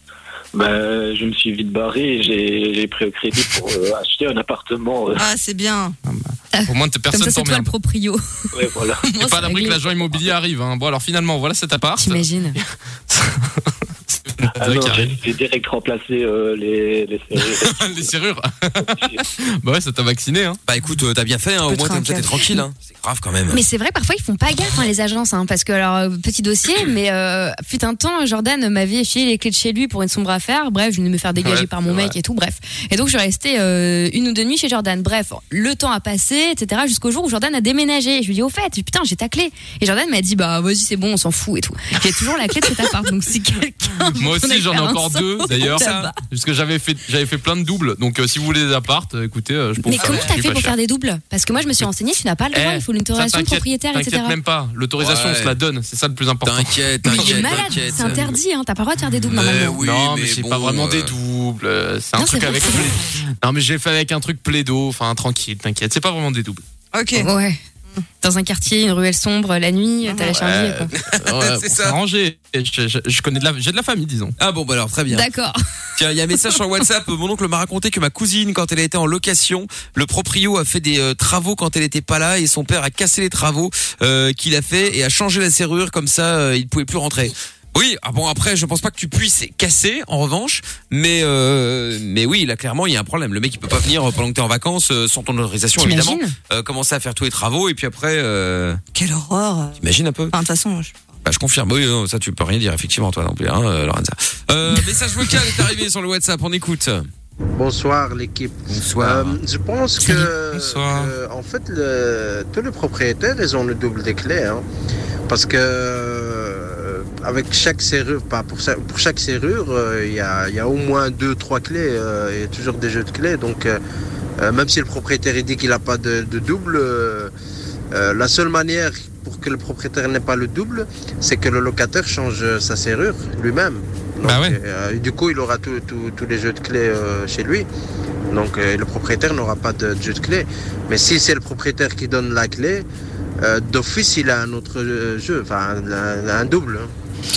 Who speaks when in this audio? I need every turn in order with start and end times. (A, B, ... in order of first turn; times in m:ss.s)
0:00.5-0:05.3 A
0:05.2-0:06.0 B
0:06.0-0:07.7 C
0:06.5-0:08.4 D
0:08.5-0:09.0 A
0:09.0-0:09.9 D
0:09.2-0:15.2 C
0:12.0-0:12.6 D
0:14.6-0:17.9 A
0:17.5-0:20.6 C
0:19.0-0:19.2 A
0:20.7-0:23.6 E
0:21.7-0:22.2 B
0:23.5-0:46.2 D
0:31.4-0:32.1 C
0:44.1-0:50.7 C
0:45.5-0:46.1 E
0:49.8-0:54.4 D
0:50.0-0:50.3 E
0:52.5-0:57.7 C
0:55.0-0:55.6 E
0:56.4-0:58.4 E
0:57.0-0:59.8 D
0:59.3-1:01.1 E
0:59.8-1:06.6 C
1:02.2-1:02.9 D
1:06.9-1:07.3 B
1:07.2-1:07.6 D
1:08.2-1:10.9 D
1:10.0-1:10.4 B
1:10.3-1:14.3 C
1:10.9-1:12.0 E
1:14.4-1:15.2 E
1:15.1-1:15.6 D
1:16.0-1:38.8 E
1:35.8-1:36.3 D
1:38.9-1:39.8 B
1:39.8-1:40.3 E
1:40.3-1:40.9 B
1:41.2-1:47.0 E
1:47.6-1:54.6 F
1:48.7-1:49.4 E
1:50.0-1:51.0 C
1:50.6-1:51.0 E
1:55.3-2:03.8 F
2:04.4-2:07.3 F
2:07.9-2:17.7 F
2:14.2-2:14.6 C
2:18.3-2:22.8 F
2:23.4-2:26.9 F